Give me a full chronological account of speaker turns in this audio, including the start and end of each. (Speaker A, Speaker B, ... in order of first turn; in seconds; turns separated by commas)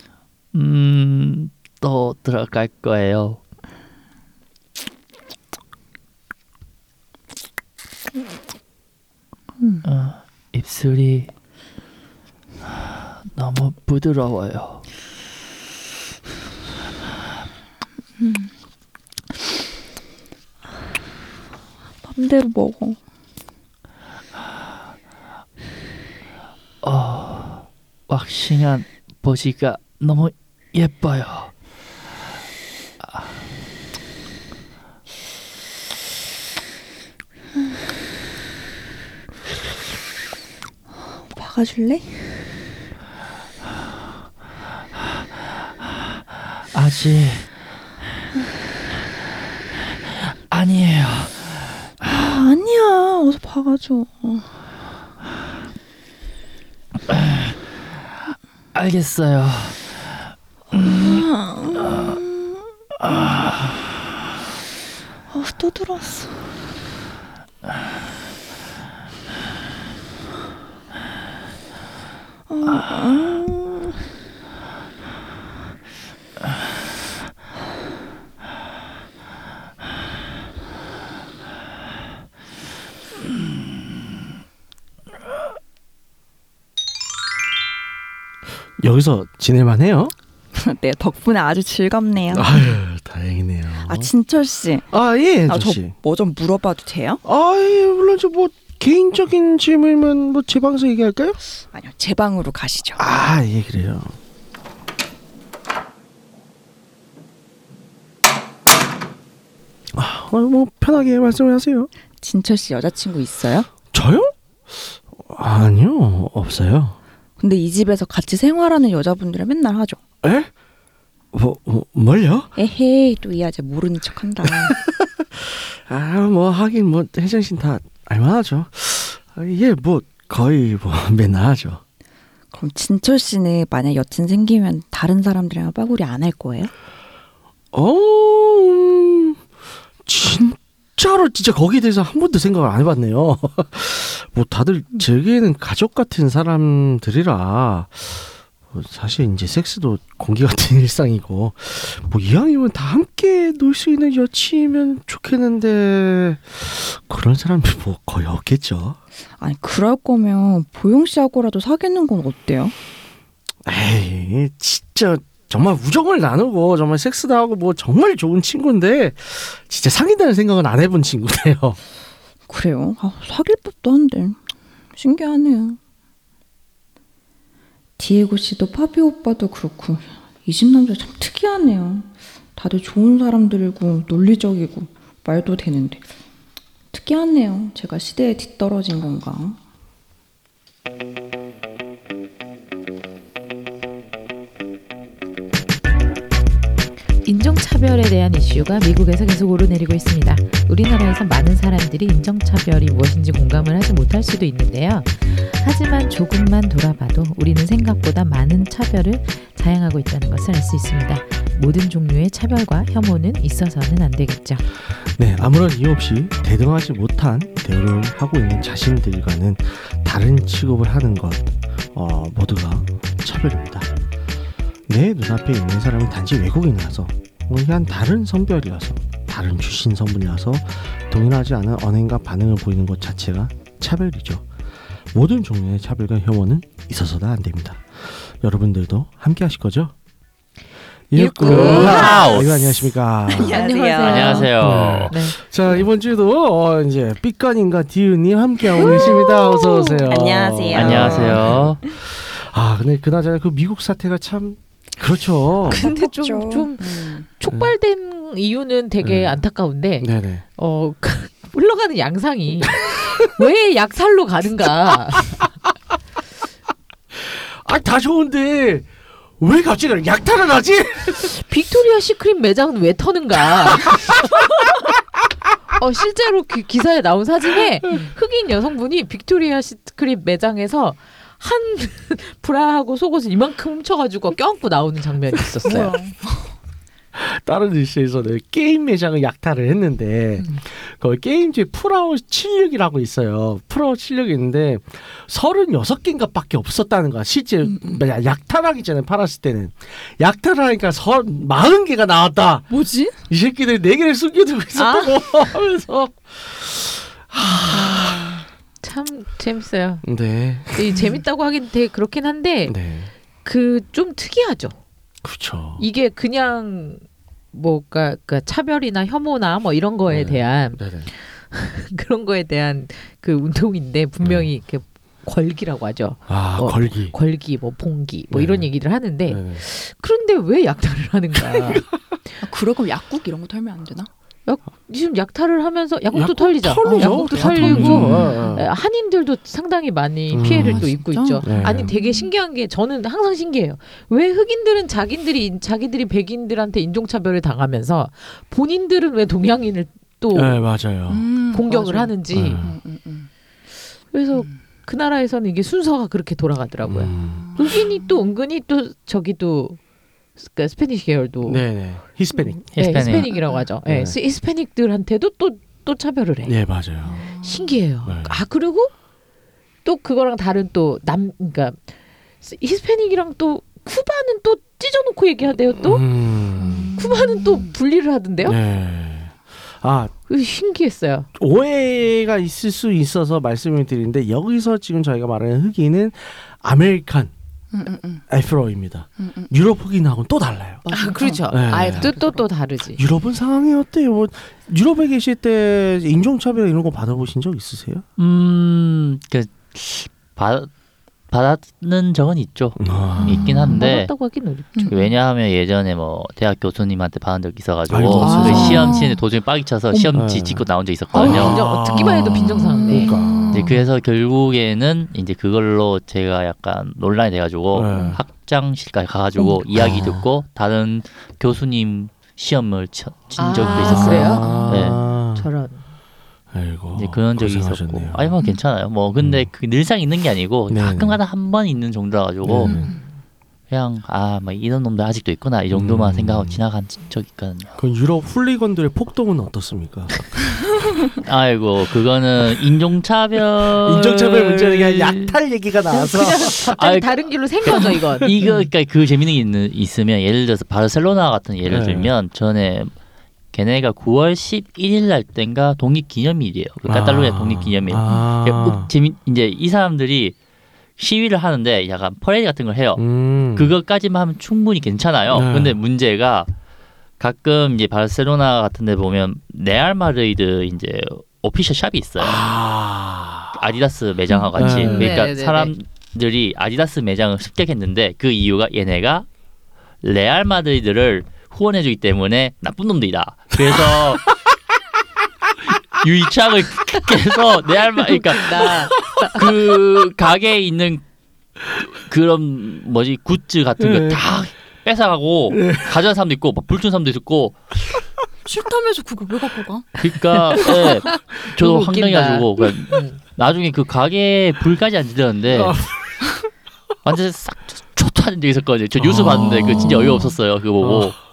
Speaker A: 0.5-3.4, Speaker B: 9.6-9.8, Speaker A: 9.8-11.3, Speaker A: 13.3-14.8, Speaker B: 18.2-18.5, Speaker B: 22.0-23.0, Speaker A: 26.8-31.5, Speaker B: 41.0-42.4, Speaker A: 46.6-47.5, Speaker A: 50.0-52.1, Speaker B: 52.0-54.5, Speaker A: 57.1-57.6, Speaker A: 58.7-60.1, Speaker A: 60.7-61.2, Speaker B: 60.8-63.5, Speaker A: 61.9-62.2, Speaker A: 63.1-63.5, Speaker B: 65.3-66.5, Speaker B: 72.5-74.0, Speaker C: 88.8-90.1, Speaker B: 90.5-92.8, Speaker C: 92.3-94.1, Speaker B: 93.9-94.9, Speaker C: 94.9-95.9, Speaker B: 95.5-97.2, Speaker C: 97.2-101.4, Speaker B: 101.6-103.0, Speaker C: 103.0-104.2, Speaker C: 109.9-111.9, Speaker B: 112.2-113.7, Speaker C: 113.9-117.0, Speaker B: 117.4-120.0, Speaker C: 120.2-120.5, Speaker C: 121.3-122.5, Speaker B: 122.6-124.8, Speaker C: 124.7-131.8, Speaker B: 132.5-136.7, Speaker C: 137.7-139.4, Speaker C: 140.1-159.0, Speaker B: 159.4-162.8, Speaker C: 163.7-171.8, Speaker B: 172.5-174.4, Speaker B: 174.9-175.8, Speaker B: 178.0-186.1, Speaker B: 186.9-189.6, Speaker D: 197.2-214.6, Speaker C: 215.2-223.9, Speaker C: 224.9-234.4, Speaker C: 235.1-239.9, Speaker C: 241.1-243.6, Speaker D: 241.2-242.2, Speaker B: 241.4-242.3, Speaker A: 241.4-242.9, Speaker B: 243.3-244.5, Speaker D: 243.4-244.5, Speaker A: 244.0-245.2, Speaker C: 244.6-255.9, Speaker D: 245.1-245.4, Speaker B: 248.8-251.9, Speaker D: 248.8-250.0, Speaker A: 250.7-251.8, Speaker B: 255.7-257.3, Speaker D: 255.7-265.4, Speaker C: 259.0-259.4, Speaker C: 260.0-260.4, Speaker C: 262.8-263.1, Speaker C: 267.2-268.9, Speaker C: 269.4-271.4, Speaker D: 271.3-274.3, Speaker C: 273.7-274.4, Speaker D: 275.8-286.0, Speaker B: 285.6-286.5, Speaker C: 287.1-302.7, Speaker B: 297.7-298.0, Speaker B: 302.7-303.2, Speaker C: 303.3-308.4, Speaker B: 304.8-305.2, Speaker B: 307.5-308.5, Speaker D: 308.8-310.0, Speaker C: 310.0-311.0, Speaker D: 310.8-312.8, Speaker C: 312.7-313.1, Speaker D: 313.4-314.8, Speaker C: 315.2-315.8, Speaker D: 315.8-331.9, Speaker C: 320.1-321.1, Speaker C: 324.2-324.5, Speaker C: 326.3-327.1, Speaker C: 328.3-328.7, Speaker C: 329.3-329.6, Speaker C: 331.4-331.8, Speaker B: 332.4-334.1, Speaker D: 334.5-350.6, Speaker C: 336.1-338.7, Speaker B: 336.8-338.6, Speaker A: 337.9-338.3, Speaker C: 340.3-340.9, Speaker B: 340.3-342.3, Speaker C: 341.4-341.9, Speaker C: 350.3-351.2, Speaker B: 351.1-353.3, Speaker D: 351.5-352.6, Speaker C: 352.3-352.8, Speaker D: 354.1-359.8, Speaker B: 354.3-354.6, Speaker C: 356.8-357.5, Speaker B: 357.4-358.0, Speaker D: 360.4-361.6, Speaker C: 361.4-363.1, Speaker A: 362.7-363.3, Speaker D: 362.8-366.6, Speaker B: 363.1-363.7, Speaker C: 363.9-364.2, Speaker C: 366.4-367.2, Speaker B: 367.1-367.8, Speaker D: 367.4-368.9, Speaker C: 368.1-368.4, Speaker D: 369.8-371.8, Speaker D: 372.4-376.1, Speaker C: 375.8-377.0, Speaker B: 376.6-377.7, Speaker D: 377.0-378.6, Speaker C: 378.4-380.1, Speaker D: 380.3-381.3, Speaker C: 381.4-387.3, Speaker B: 387.7-388.2, Speaker C: 388.3-390.8, Speaker B: 389.2-389.5, Speaker B: 390.8-392.4, Speaker D: 390.9-393.0, Speaker C: 391.5-392.1, Speaker C: 393.0-398.1, Speaker A: 398.2-400.7, Speaker A: 401.3-404.1, Speaker C: 402.8-403.8, Speaker B: 403.2-403.8, Speaker D: 403.7-405.1, Speaker A: 404.9-411.6, Speaker C: 407.9-409.0, Speaker D: 408.2-409.0, Speaker B: 408.2-409.2, Speaker C: 410.1-413.8, Speaker D: 411.1-413.1, Speaker B: 412.7-413.8, Speaker A: 413.5-425.0, Speaker C: 417.7-418.2, Speaker C: 419.7-420.3, Speaker D: 423.4-425.8, Speaker C: 423.5-425.5, Speaker C: 426.5-428.3, Speaker A: 426.9-432.9, Speaker C: 429.2-429.5, Speaker C: 430.7-431.2, Speaker C: 432.4-432.9, Speaker B: 432.7-432.9, Speaker A: 433.7-437.8, Speaker C: 435.7-436.6, Speaker C: 437.8-440.3, Speaker A: 441.2-445.4, Speaker C: 443.7-446.7, Speaker D: 445.9-448.6, Speaker A: 446.6-447.1, Speaker A: 447.6-452.9, Speaker C: 451.7-452.1, Speaker A: 453.5-460.4, Speaker C: 456.9-458.9, Speaker A: 461.0-466.5, Speaker C: 463.0-463.7, Speaker C: 465.3-465.8, Speaker A: 467.2-472.4, Speaker C: 472.2-473.6, Speaker A: 473.5-479.3, Speaker B: 474.3-475.1, Speaker C: 474.5-475.1, Speaker D: 474.9-475.7, Speaker A: 480.0-484.3, Speaker C: 483.7-484.0, Speaker A: 485.9-491.0, Speaker D: 488.1-489.3, Speaker A: 492.0-497.6, Speaker C: 493.8-494.2, Speaker C: 495.5-496.0, Speaker B: 498.5-499.9, Speaker A: 500.0-505.8, Speaker D: 501.5-503.2, Speaker C: 505.5-506.5, Speaker A: 507.0-511.2, Speaker C: 509.0-511.1